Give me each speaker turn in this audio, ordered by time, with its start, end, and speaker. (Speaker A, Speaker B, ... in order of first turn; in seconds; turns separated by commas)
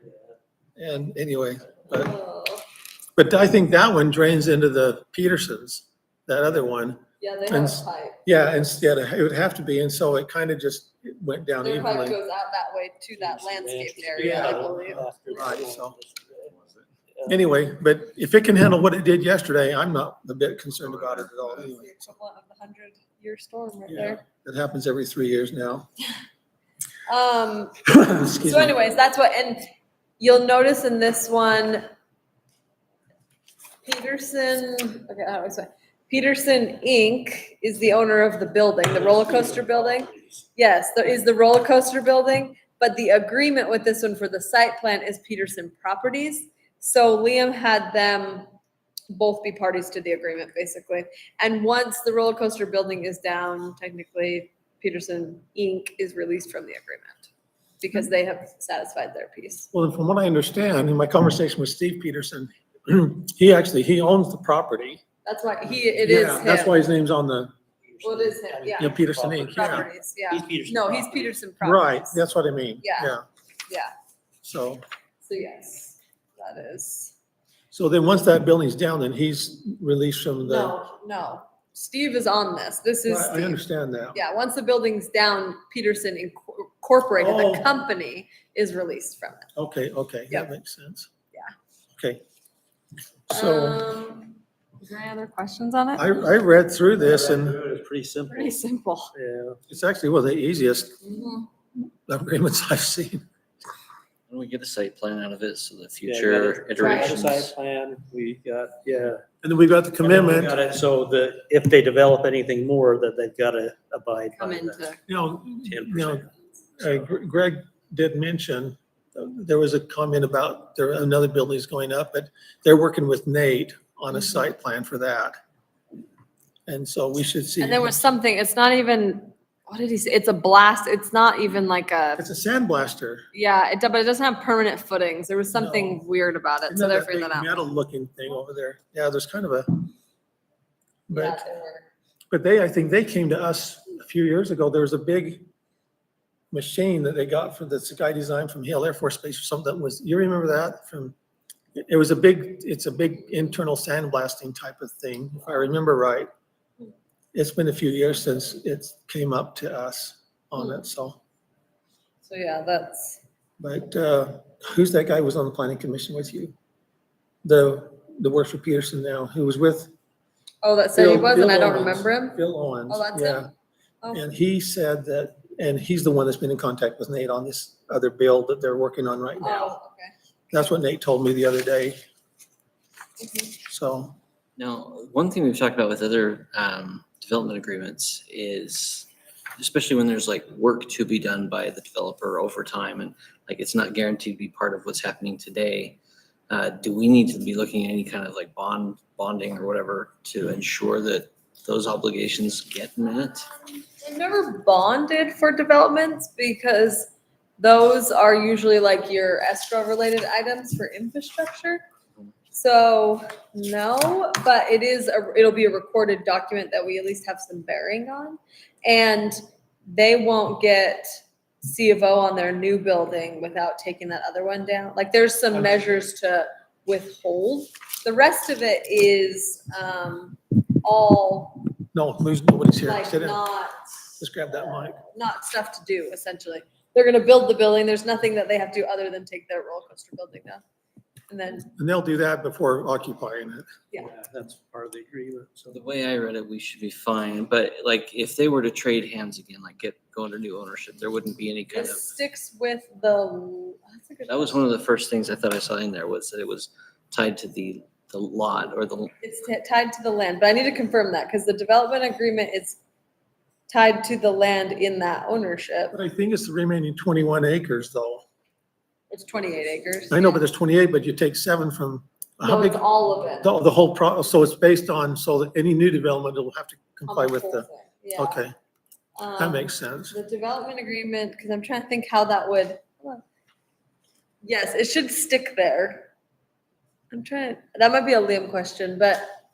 Speaker A: 0.8-2.1, Speaker B: 1.9-2.6, Speaker A: 3.2-12.2, Speaker B: 7.2-8.2, Speaker B: 11.6-15.5, Speaker C: 13.2-16.5, Speaker A: 14.2-16.0, Speaker A: 17.3-22.0, Speaker B: 21.4-24.2, Speaker A: 23.9-25.9, Speaker B: 27.1-27.8, Speaker A: 27.9-28.8, Speaker B: 28.4-29.7, Speaker B: 30.2-31.8, Speaker B: 33.8-48.5, Speaker C: 39.0-39.7, Speaker B: 49.1-57.3, Speaker B: 57.8-59.7, Speaker A: 59.7-65.0, Speaker B: 65.2-66.8, Speaker A: 66.0-67.5, Speaker C: 68.0-71.3, Speaker B: 68.0-72.2, Speaker A: 68.8-69.9, Speaker A: 71.6-73.2, Speaker B: 72.8-73.2, Speaker A: 74.4-74.8, Speaker B: 75.2-77.1, Speaker A: 77.7-80.8, Speaker B: 80.4-83.6, Speaker A: 83.1-84.2, Speaker B: 84.1-89.5, Speaker A: 87.2-87.7, Speaker A: 89.5-91.1, Speaker A: 92.0-92.2, Speaker A: 93.3-93.8, Speaker B: 93.3-96.1, Speaker A: 96.0-97.6, Speaker C: 97.0-98.6, Speaker B: 98.3-99.1, Speaker C: 99.1-99.6, Speaker A: 99.7-101.0, Speaker B: 101.0-101.5, Speaker A: 102.1-103.2, Speaker D: 104.3-107.5, Speaker C: 106.1-109.2, Speaker B: 106.8-107.1, Speaker A: 109.4-110.6, Speaker C: 110.0-114.9, Speaker B: 114.4-115.0, Speaker A: 115.1-116.3, Speaker C: 115.5-116.3, Speaker A: 116.8-125.3, Speaker A: 126.7-128.0, Speaker B: 127.6-132.2, Speaker A: 132.2-133.3, Speaker B: 133.3-137.6, Speaker A: 135.6-136.0, Speaker A: 136.7-139.9, Speaker A: 141.1-141.4, Speaker B: 141.1-141.9, Speaker A: 142.3-145.5, Speaker A: 146.5-151.2, Speaker A: 151.8-156.3, Speaker A: 157.3-161.2, Speaker B: 162.2-163.2, Speaker A: 163.6-166.5, Speaker A: 167.4-169.9, Speaker B: 170.6-173.5, Speaker A: 170.9-173.5, Speaker A: 174.1-179.8, Speaker B: 179.4-180.1, Speaker A: 180.5-182.0, Speaker B: 183.2-183.5, Speaker A: 183.7-184.2, Speaker D: 184.6-196.0, Speaker D: 196.5-203.5, Speaker B: 203.8-211.8, Speaker B: 212.5-221.1, Speaker B: 221.6-231.7, Speaker A: 231.9-233.4, Speaker B: 232.8-240.6, Speaker A: 234.2-235.0, Speaker B: 241.3-241.7, Speaker A: 241.7-243.7, Speaker C: 244.0-245.8, Speaker D: 245.7-252.1, Speaker B: 251.7-254.7, Speaker D: 254.3-259.1, Speaker B: 259.2-262.8, Speaker B: 263.7-265.9, Speaker A: 265.9-268.2, Speaker B: 269.1-270.4, Speaker A: 270.1-272.8, Speaker B: 272.4-273.5, Speaker A: 273.4-278.5, Speaker B: 277.1-278.4, Speaker B: 279.2-283.2, Speaker A: 279.4-280.1, Speaker B: 284.4-286.1, Speaker B: 287.1-289.2